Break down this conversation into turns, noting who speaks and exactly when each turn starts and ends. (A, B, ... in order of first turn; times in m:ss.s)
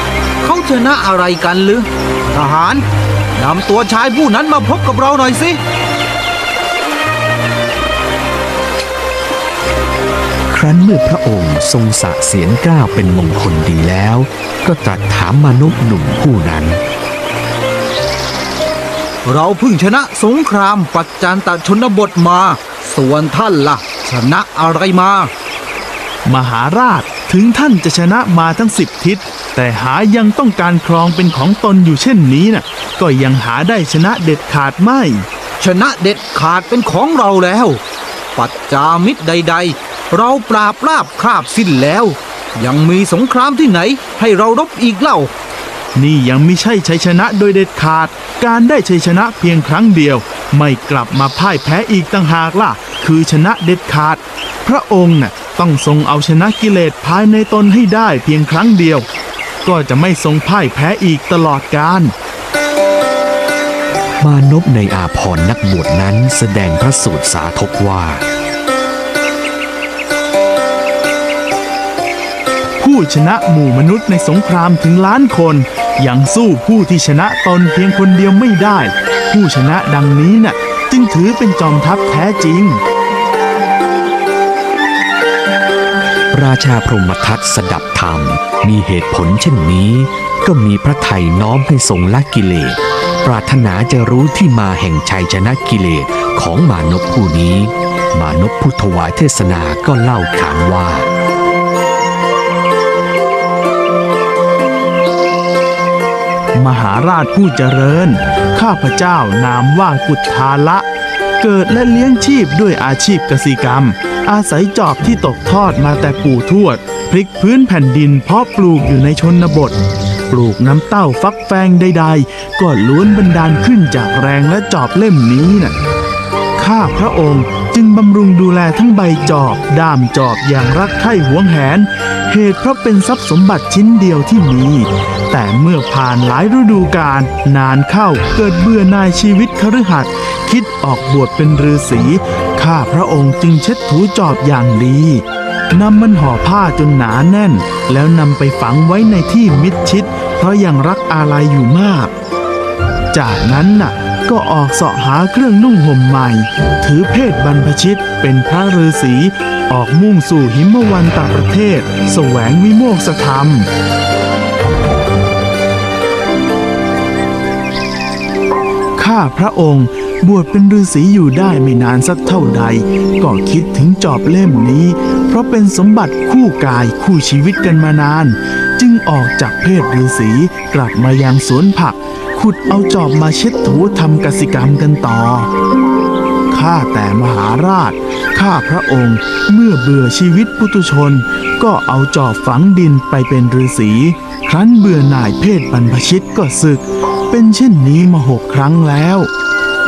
0:00.4-0:02.8 A
0:03.4-0:05.6 A
0:10.5-0:16.8 B
0:19.2-0:25.3 A
0:26.2-0:35.2 C
0:35.6-0:37.8 A
0:38.4-0:45.3 A
0:46.0-0:59.0 C
0:59.6-1:02.1 C
1:04.2-1:08.2 B
1:12.8-1:22.8 C
1:26.3-1:41.1 B
1:46.6-1:50.8 C
1:51.4-1:59.8 C
2:00.3-2:05.7 C
2:06.6-2:32.1 C
2:33.1-2:43.7 C
2:49.0-3:05.5 C
3:06.5-3:19.3 C